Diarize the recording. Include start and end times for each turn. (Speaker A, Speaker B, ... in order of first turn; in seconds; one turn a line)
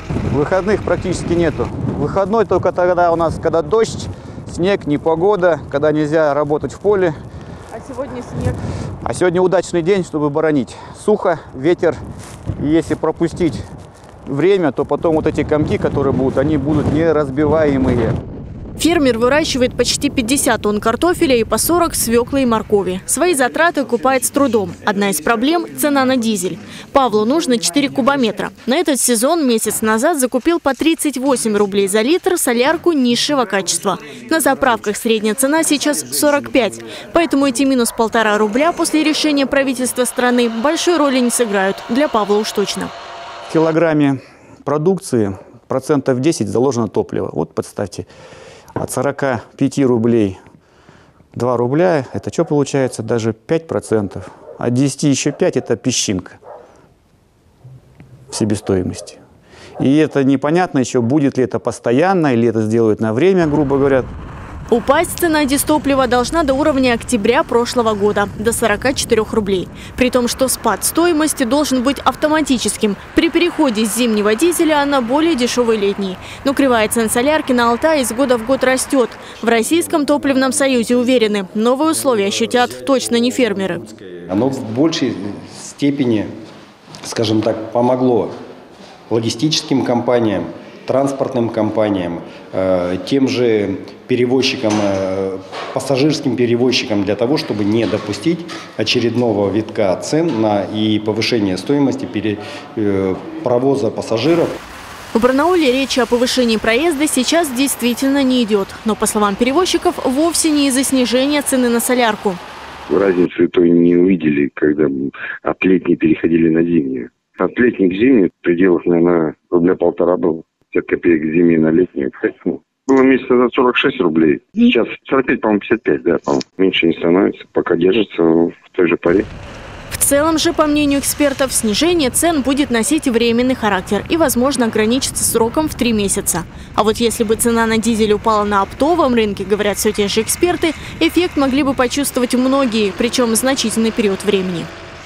Speaker A: 0.3-7.2
Speaker B: 7.7-8.6
Speaker A: 9.0-12.0
Speaker A: 12.6-13.6
Speaker A: 14.3-18.2
Speaker B: 18.8-42.9
Speaker A: 43.5-48.1
Speaker A: 48.8-50.4
Speaker A: 51.4-56.4
Speaker A: 58.3-59.2
Speaker A: 59.8-64.1
Speaker B: 64.7-83.8
Speaker C: 83.1-86.3
Speaker C: 87.0-88.3
Speaker C: 89.1-104.5
Speaker B: 105.1-112.4
Speaker D: 112.9-129.3
Speaker B: 129.9-144.7